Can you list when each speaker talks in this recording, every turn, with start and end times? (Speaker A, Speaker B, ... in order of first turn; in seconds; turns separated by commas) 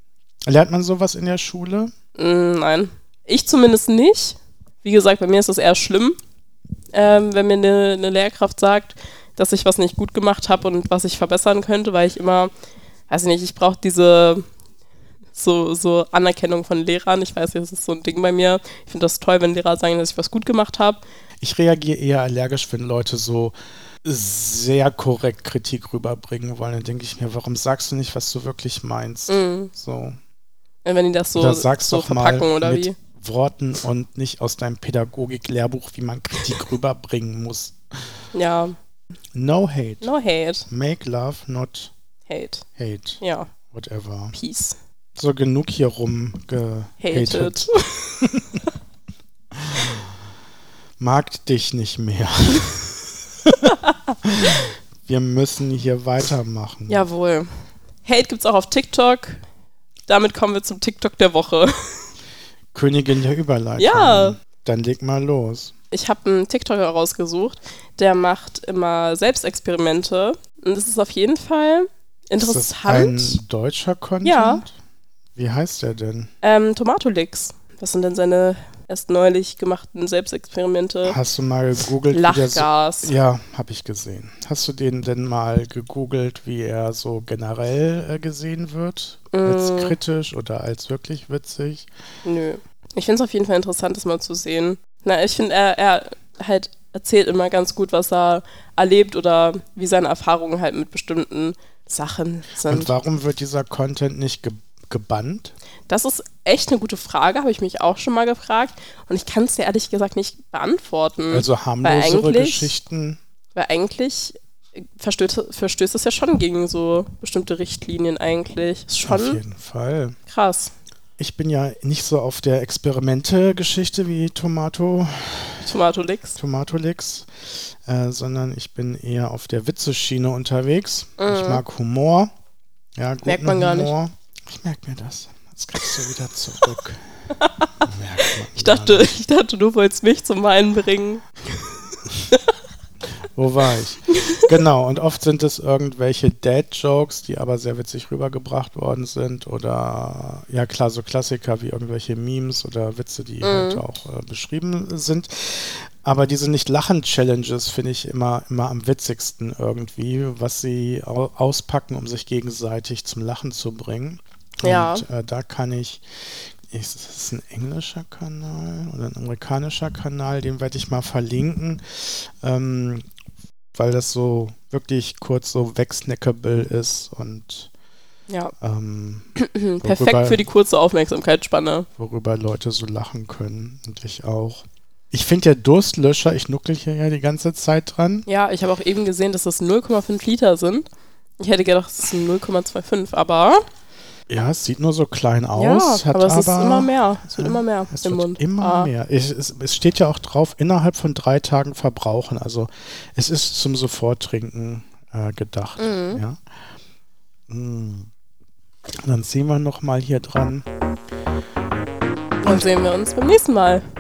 Speaker A: 0.5-1.9, Speaker B: 2.1-6.2, Speaker B: 6.9-12.5, Speaker B: 13.1-14.4, Speaker B: 15.4-21.0, Speaker A: 21.4-30.1, Speaker B: 29.3-29.7, Speaker B: 30.9-33.0, Speaker A: 31.4-37.8, Speaker B: 38.3-38.7, Speaker A: 39.3-40.1, Speaker B: 40.0-40.6, Speaker A: 40.7-41.9, Speaker B: 42.3-42.6, Speaker A: 42.8-44.4, Speaker B: 43.2-43.5, Speaker B: 44.3-44.8, Speaker A: 45.1-48.6, Speaker B: 47.0-48.2, Speaker A: 49.5-50.0, Speaker A: 51.0-57.0, Speaker B: 56.9-57.5, Speaker B: 58.0-59.4, Speaker B: 60.1-61.7, Speaker A: 62.7-65.7, Speaker B: 63.8-64.4, Speaker B: 65.9-73.4, Speaker A: 72.4-74.7, Speaker B: 74.2-74.6, Speaker A: 75.3-76.3, Speaker B: 76.4-81.2, Speaker A: 81.0-91.9, Speaker B: 82.1-83.1, Speaker B: 89.3-89.9, Speaker B: 92.2-102.9, Speaker A: 102.7-105.5, Speaker B: 105.9-112.7, Speaker A: 111.3-113.2, Speaker B: 113.5-119.4, Speaker A: 119.0-120.2, Speaker B: 120.3-120.7, Speaker A: 121.2-125.7, Speaker B: 125.6-126.4, Speaker A: 126.4-132.3, Speaker B: 131.2-131.6, Speaker A: 133.0-137.0, Speaker B: 133.2-133.9, Speaker B: 137.3-142.5, Speaker A: 137.8-139.1, Speaker A: 143.3-173.0, Speaker B: 144.1-144.5, Speaker B: 153.4-153.8, Speaker B: 164.6-165.0, Speaker A: 173.7-177.7, Speaker A: 178.6-179.3, Speaker B: 179.4-181.9, Speaker A: 179.8-180.4, Speaker A: 182.0-188.2, Speaker B: 188.3-190.8, Speaker B: 191.4-193.6, Speaker A: 194.3-206.4, Speaker B: 195.5-198.9, Speaker B: 205.8-206.2, Speaker A: 207.5-208.1, Speaker A: 209.0-210.7, Speaker B: 212.4-213.8